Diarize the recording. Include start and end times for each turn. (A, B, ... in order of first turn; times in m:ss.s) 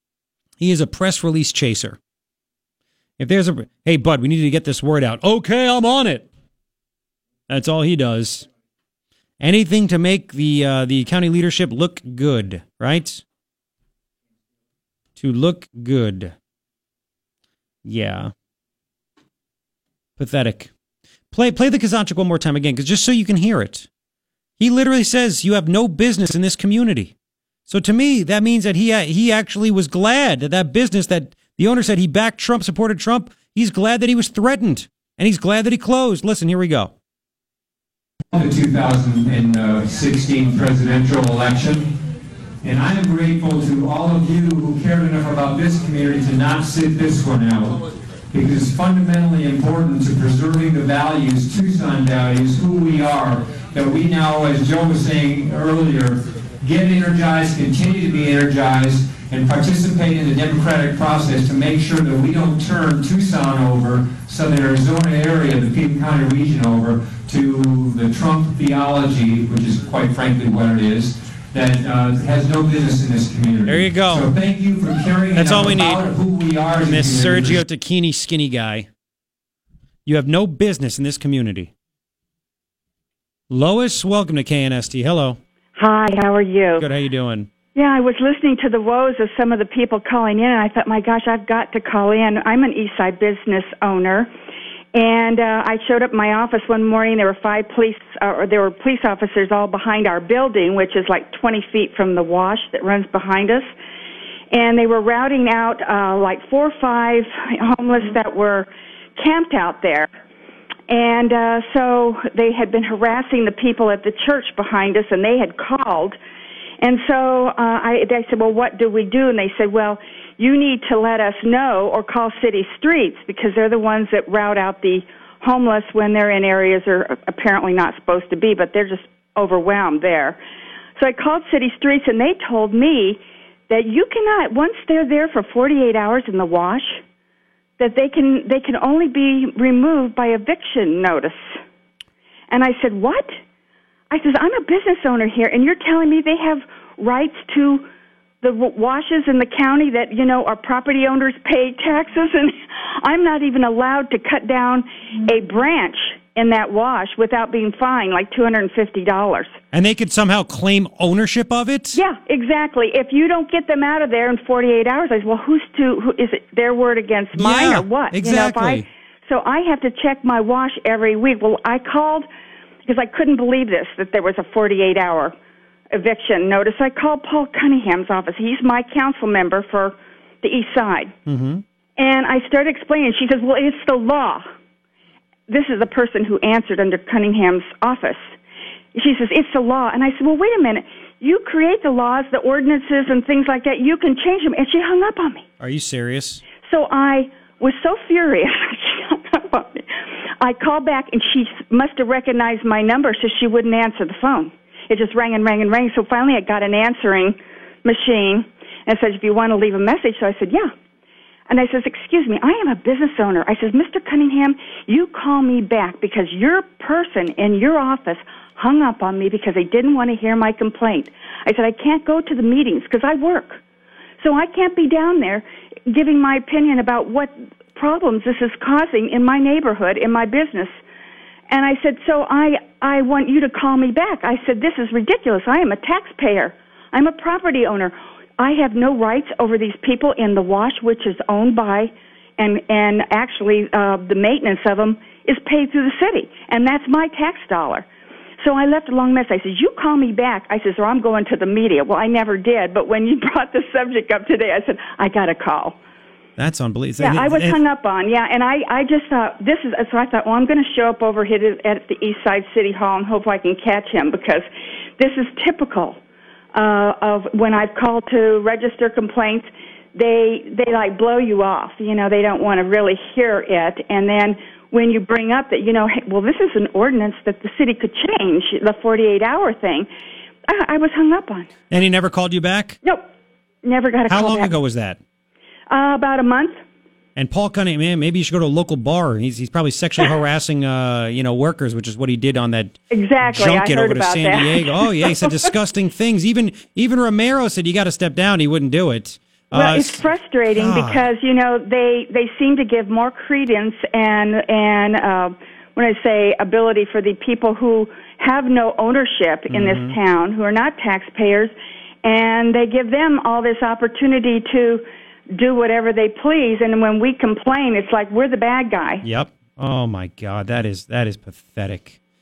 0:00.6-0:02.0 A
0:03.2-0:06.3 A
0:07.5-0:08.5 A
0:09.4-0:13.2 A
0:15.2-0:16.3 A
0:17.8-0:18.3 A
0:20.2-0:20.7 A
0:21.3-0:23.9 A
0:24.6-0:27.1 A
0:27.7-0:36.9 A
0:38.3-0:41.9 B
0:42.6-0:47.8 B
0:48.3-1:17.6 B
1:13.6-1:14.3 A
1:15.3-1:16.1 A
1:16.8-1:18.9 A
1:20.0-1:21.7 A
1:23.5-1:25.4 A
1:25.8-1:26.8 C
1:26.8-1:27.5 A
1:27.7-1:34.3 C
1:34.9-1:43.7 C
1:44.5-1:50.1 C
1:50.9-1:56.2 C
1:56.8-2:10.4 C
2:11.0-2:17.0 C
2:17.8-2:21.6 C
2:22.5-2:23.4 C
2:24.1-2:27.9 C
2:28.4-2:39.6 C
2:39.7-2:42.0 A
2:41.9-2:52.3 C
2:47.3-2:48.8 A
2:52.8-2:55.3 C
2:55.9-3:01.1 C
3:01.2-3:01.6 A
3:02.0-3:04.4 C
3:05.5-3:08.3 C
3:08.9-3:15.4 C
3:15.6-3:16.4 A
3:16.6-3:30.7 C
3:31.5-3:43.6 C
3:44.2-3:50.8 C
3:51.5-4:07.9 C
4:08.4-4:15.8 C
4:16.4-4:17.6 A
4:17.0-4:24.4 C
4:25.0-4:26.0 C
4:26.5-4:39.9 C
4:40.4-4:41.5 C
4:41.7-4:42.8 A
4:43.6-4:44.5 C
4:44.1-4:45.0 A
4:45.7-4:46.6 C
4:47.2-5:01.1 A
4:52.9-4:55.5 C
4:59.5-5:19.0 C
5:09.5-5:10.0 A
5:19.0-5:22.0 A